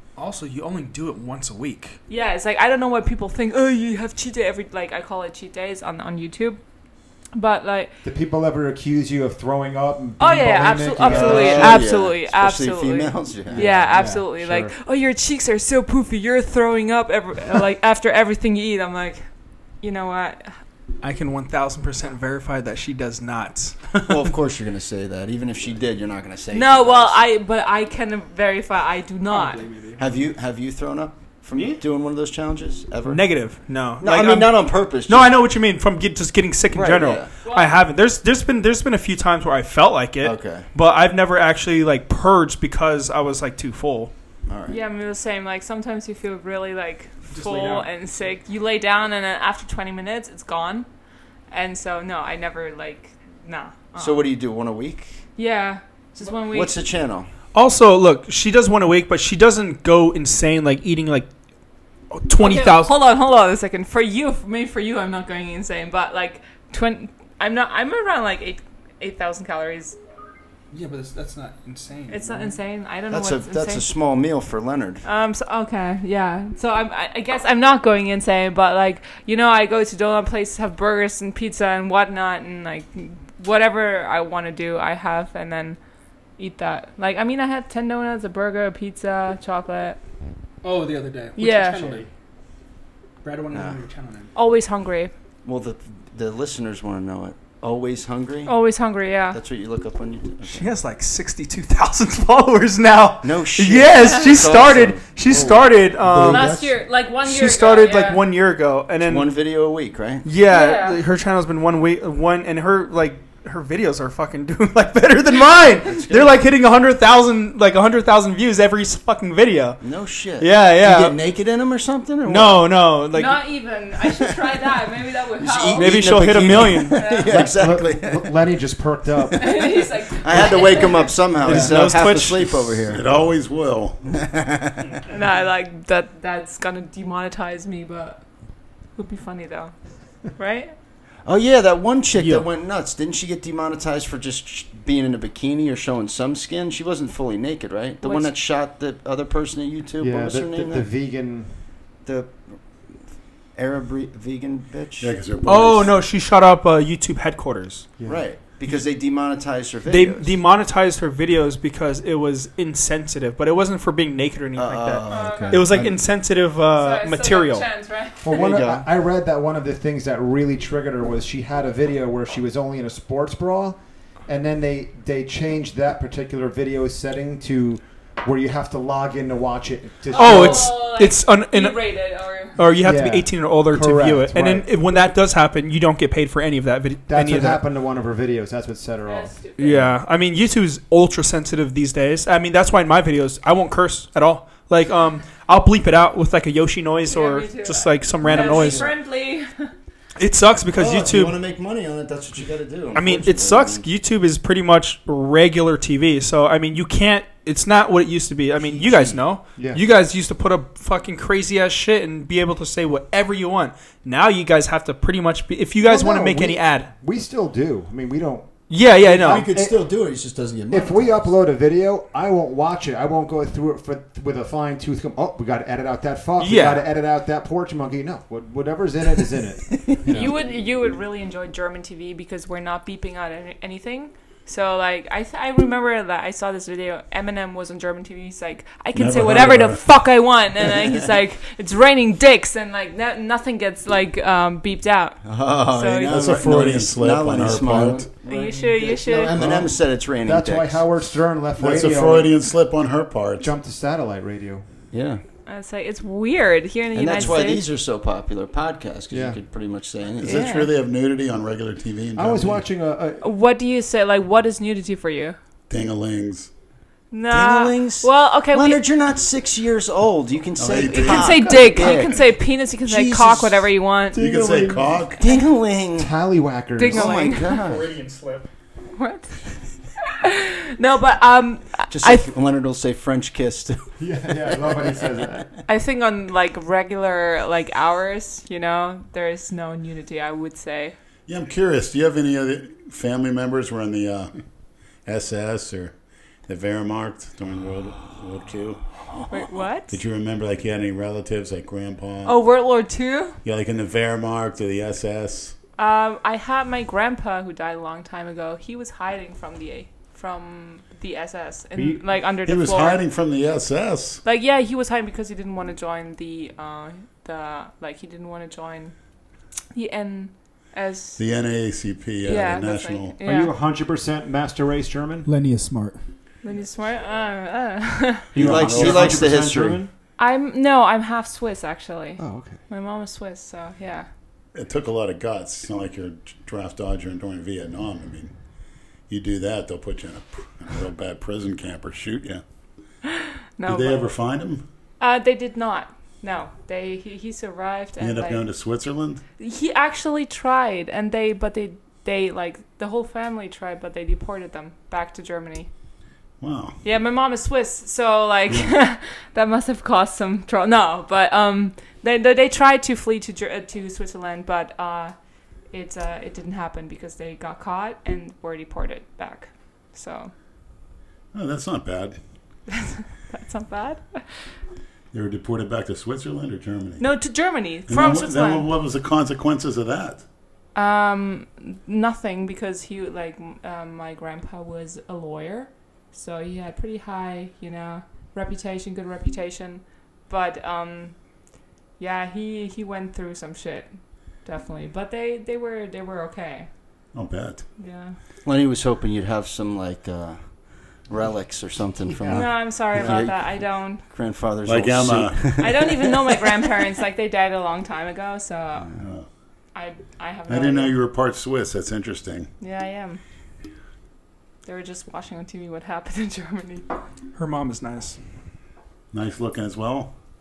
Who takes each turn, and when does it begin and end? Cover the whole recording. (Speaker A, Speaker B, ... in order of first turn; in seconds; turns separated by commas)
Speaker A: 0.2-2.0, Speaker B: 2.1-6.6, Speaker B: 7.3-7.9, Speaker C: 8.0-11.8, Speaker B: 10.2-19.3, Speaker D: 11.0-13.7, Speaker C: 13.5-14.7, Speaker B: 19.8-20.6, Speaker A: 21.0-24.3, Speaker D: 24.1-27.2, Speaker B: 26.5-29.7, Speaker A: 29.3-30.1, Speaker D: 30.0-33.3, Speaker A: 31.5-31.8, Speaker A: 33.0-44.1, Speaker D: 34.0-35.3, Speaker D: 36.7-37.3, Speaker B: 37.4-37.8, Speaker D: 40.2-40.6, Speaker D: 44.5-44.8, Speaker B: 44.7-50.9, Speaker A: 47.3-47.9, Speaker B: 51.5-54.3, Speaker D: 54.0-55.2, Speaker B: 55.4-56.8, Speaker D: 56.4-57.3, Speaker A: 57.5-61.3, Speaker A: 62.1-62.9, Speaker B: 62.4-70.0, Speaker A: 70.7-72.5, Speaker B: 72.1-73.9, Speaker D: 73.1-75.0, Speaker B: 75.0-85.8, Speaker B: 86.4-90.0, Speaker A: 90.6-92.1, Speaker B: 91.3-92.0, Speaker A: 93.2-94.3, Speaker D: 93.5-93.8, Speaker B: 94.3-95.1, Speaker D: 95.4-98.6, Speaker B: 98.5-99.4, Speaker D: 99.3-100.7, Speaker A: 100.4-106.7, Speaker D: 103.2-106.7, Speaker B: 104.0-104.4, Speaker B: 106.2-108.2, Speaker A: 107.2-109.3, Speaker D: 109.0-110.3, Speaker A: 110.2-119.8, Speaker B: 110.5-111.0, Speaker D: 115.9-116.4, Speaker D: 119.8-122.6, Speaker A: 120.4-121.2, Speaker A: 122.2-123.4, Speaker B: 123.1-125.9, Speaker D: 125.4-128.3, Speaker A: 125.8-127.0, Speaker B: 126.9-127.3, Speaker C: 127.2-129.7, Speaker B: 129.4-131.2, Speaker D: 130.2-133.1, Speaker A: 131.4-132.7, Speaker C: 131.4-131.8, Speaker E: 132.8-134.1, Speaker D: 134.1-134.9, Speaker B: 135.1-138.2, Speaker B: 138.9-140.7, Speaker D: 141.2-150.9, Speaker A: 142.1-142.5, Speaker B: 148.0-148.3, Speaker C: 150.0-151.6, Speaker D: 152.0-153.0, Speaker D: 153.5-155.2, Speaker E: 155.0-155.9, Speaker A: 155.4-157.9, Speaker C: 158.0-158.2, Speaker D: 158.1-160.3, Speaker A: 159.9-167.7, Speaker D: 164.6-165.6, Speaker B: 165.1-165.5, Speaker C: 165.6-165.9, Speaker B: 166.8-168.4, Speaker C: 168.2-180.8, Speaker D: 168.3-168.8, Speaker A: 180.1-181.9, Speaker B: 180.1-182.6, Speaker A: 182.6-187.6, Speaker C: 182.8-184.7, Speaker C: 187.1-189.9, Speaker B: 189.1-189.8, Speaker A: 189.6-198.9, Speaker B: 197.1-199.7, Speaker D: 198.2-198.9, Speaker A: 200.2-201.4, Speaker D: 200.8-203.8, Speaker A: 202.9-216.9, Speaker D: 208.6-209.2, Speaker C: 209.6-209.8, Speaker C: 215.8-219.8, Speaker A: 218.7-219.5, Speaker D: 219.1-221.3, Speaker C: 220.7-230.3, Speaker A: 226.4-226.8, Speaker B: 230.1-246.3, Speaker E: 238.9-239.9, Speaker D: 245.2-250.8, Speaker E: 246.1-248.1, Speaker B: 248.2-249.4, Speaker C: 249.3-252.3, Speaker E: 251.6-253.5, Speaker C: 253.4-254.6, Speaker D: 254.9-255.2, Speaker B: 255.4-257.6, Speaker D: 256.9-260.6, Speaker C: 259.1-259.4, Speaker E: 260.2-262.6, Speaker B: 260.2-260.7, Speaker C: 262.1-263.2, Speaker B: 263.2-265.4, Speaker E: 265.7-266.5, Speaker B: 267.1-268.8, Speaker D: 267.3-272.3, Speaker E: 270.6-271.7, Speaker B: 270.7-274.3, Speaker D: 272.9-273.6, Speaker E: 274.1-275.2, Speaker A: 274.2-274.8, Speaker C: 274.5-274.8, Speaker D: 275.2-276.1, Speaker C: 275.9-277.2, Speaker B: 276.8-277.6, Speaker D: 276.8-277.9, Speaker A: 277.5-278.5, Speaker B: 278.9-279.4, Speaker B: 280.1-282.3, Speaker D: 281.9-283.9, Speaker C: 284.0-285.5, Speaker D: 284.4-284.9, Speaker B: 285.7-290.9, Speaker E: 291.3-294.3, Speaker E: 295.0-295.9, Speaker E: 296.5-298.8, Speaker B: 299.3-300.0, Speaker E: 299.9-302.4, Speaker B: 302.2-303.4, Speaker E: 303.4-305.5, Speaker B: 305.8-313.0, Speaker C: 311.8-312.0, Speaker E: 312.3-314.2, Speaker B: 314.2-318.9, Speaker B: 319.7-321.2, Speaker E: 321.2-323.2, Speaker B: 322.2-323.5, Speaker C: 323.2-325.3, Speaker A: 325.2-326.0, Speaker B: 326.4-328.3, Speaker E: 328.3-329.4, Speaker C: 328.3-329.9, Speaker D: 328.4-329.8, Speaker B: 330.2-334.1, Speaker C: 332.2-332.6, Speaker E: 334.5-338.3, Speaker E: 339.1-342.4, Speaker B: 343.6-344.1, Speaker E: 343.6-344.6, Speaker B: 345.0-348.4, Speaker E: 348.0-349.2, Speaker B: 349.4-355.7, Speaker E: 356.4-356.8, Speaker B: 356.8-365.1, Speaker B: 365.7-370.3, Speaker E: 371.3-372.2, Speaker B: 372.7-374.2, Speaker E: 375.1-377.1, Speaker B: 377.0-378.7, Speaker E: 377.9-380.2, Speaker B: 380.7-391.2, Speaker B: 392.0-393.9, Speaker B: 394.4-396.7, Speaker E: 397.1-397.6, Speaker B: 397.8-398.1, Speaker D: 398.4-406.6, Speaker C: 402.0-403.2, Speaker B: 402.3-404.0, Speaker E: 404.6-405.6, Speaker B: 405.6-408.9, Speaker E: 409.0-409.2, Speaker B: 409.7-410.9, Speaker E: 410.5-412.5, Speaker B: 412.6-413.2, Speaker B: 414.6-416.8, Speaker A: 417.4-418.2, Speaker E: 419.1-420.1